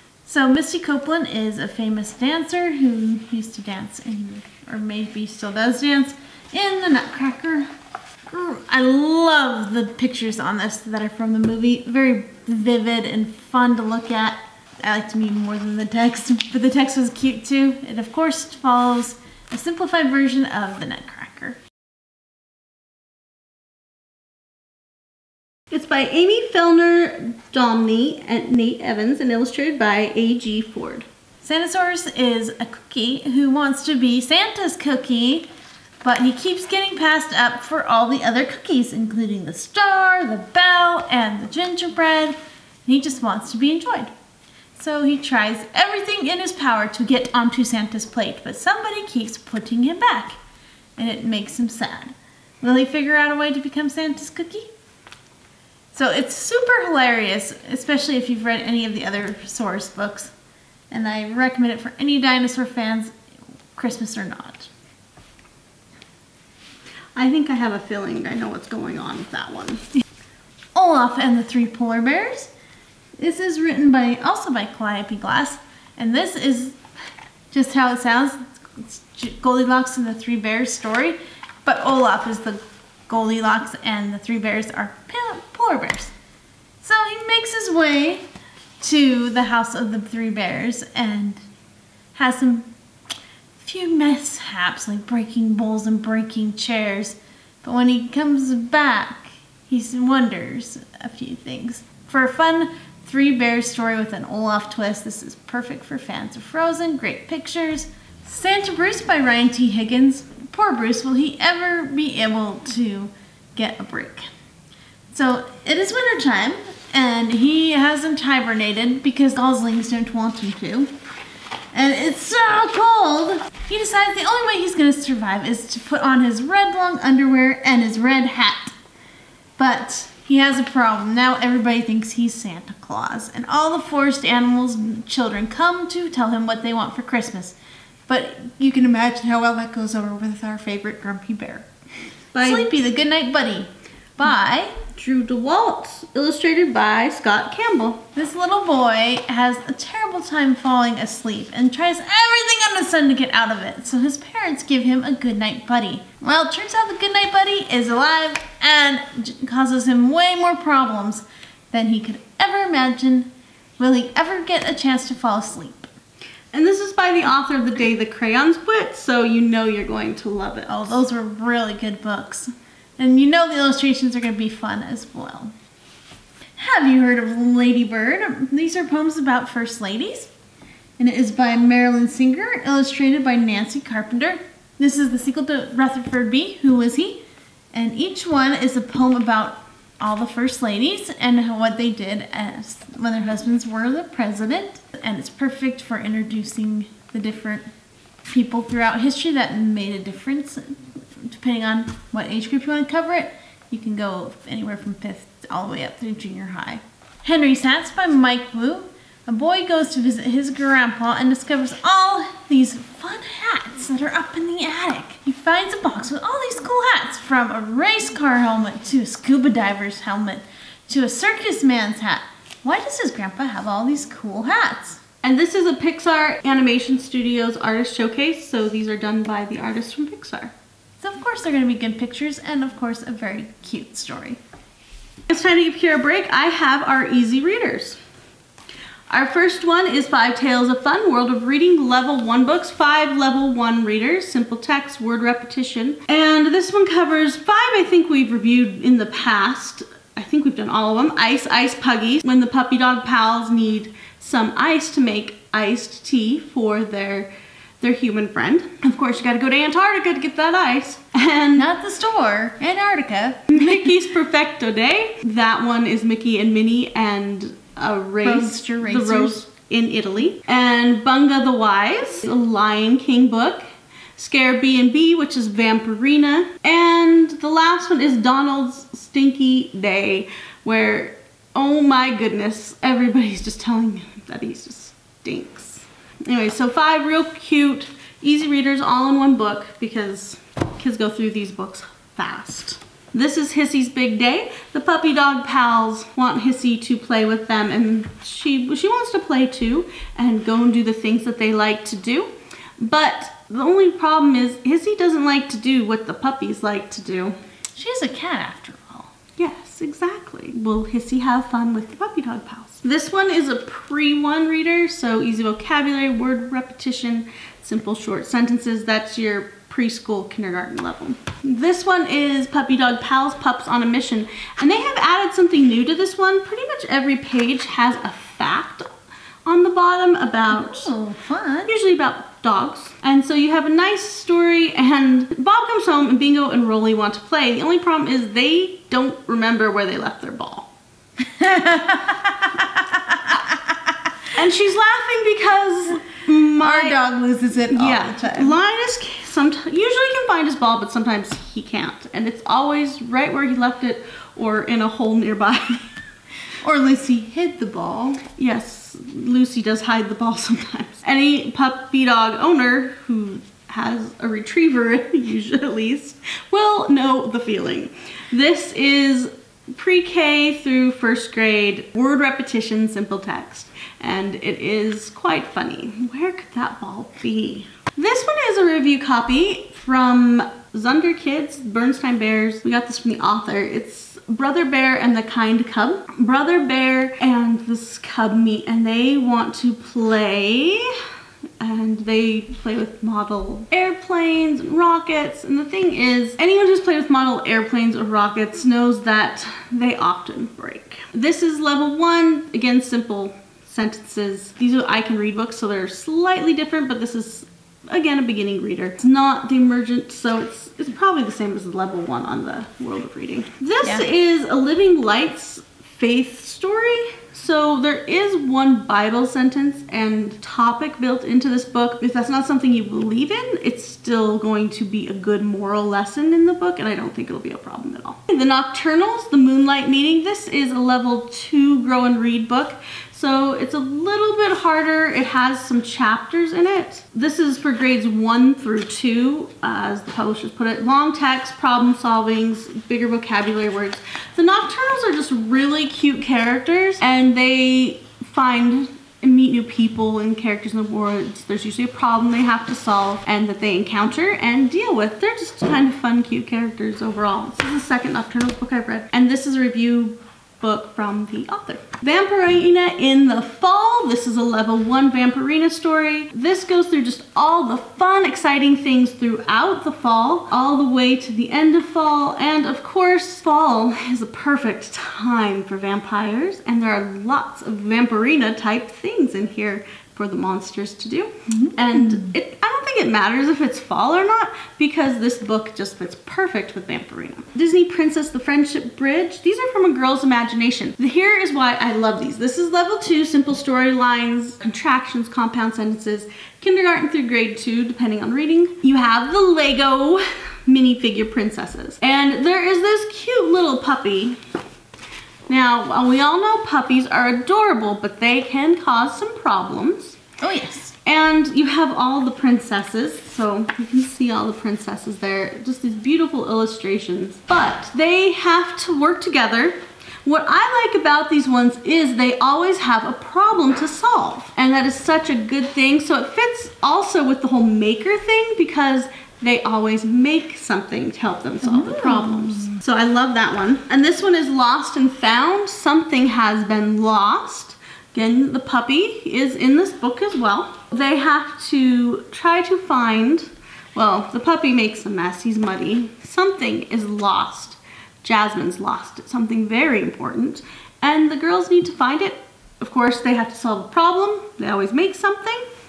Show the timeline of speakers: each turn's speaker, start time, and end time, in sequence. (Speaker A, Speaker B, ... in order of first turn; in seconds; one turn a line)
Speaker A: 0.2-7.7
Speaker A: 8.3-21.6
Speaker B: 25.7-31.1
Speaker A: 31.4-35.5
Speaker A: 36.0-44.1
Speaker A: 44.8-50.4
Speaker A: 51.0-54.7
Speaker A: 55.9-60.3
Speaker A: 60.9-63.1
Speaker A: 63.7-64.7
Speaker B: 67.2-69.8
Speaker A: 70.8-72.5
Speaker A: 73.2-76.8
Speaker A: 77.5-86.1
Speaker A: 86.8-88.2
Speaker A: 88.8-91.4
Speaker A: 92.2-92.7
Speaker A: 93.6-114.3
Speaker A: 115.1-120.9
Speaker A: 121.7-128.7
Speaker A: 129.6-137.6
Speaker A: 138.1-141.7
Speaker B: 142.3-142.8
Speaker A: 142.4-144.8
Speaker B: 144.9-148.0
Speaker A: 148.2-165.9
Speaker B: 166.5-171.0
Speaker A: 170.7-175.5
Speaker A: 176.6-180.3
Speaker A: 181.0-187.2
Speaker A: 187.7-197.7
Speaker A: 198.3-225.0
Speaker B: 225.2-230.5
Speaker A: 231.0-234.4
Speaker B: 235.3-238.0
Speaker B: 239.1-261.7
Speaker A: 261.6-263.9
Speaker B: 263.5-273.6
Speaker A: 268.2-269.4
Speaker B: 274.2-307.4
Speaker A: 307.8-309.1
Speaker B: 309.4-328.9
Speaker B: 329.5-330.9
Speaker A: 330.5-331.7
Speaker B: 331.7-340.7
Speaker A: 341.2-344.1
Speaker B: 344.4-347.0
Speaker A: 346.6-348.6
Speaker B: 347.7-355.9
Speaker A: 356.6-358.2
Speaker B: 358.4-390.9
Speaker B: 391.6-504.4
Speaker A: 481.5-482.3
Speaker B: 505.5-510.2
Speaker A: 510.4-510.9
Speaker B: 511.1-555.7
Speaker A: 531.6-532.8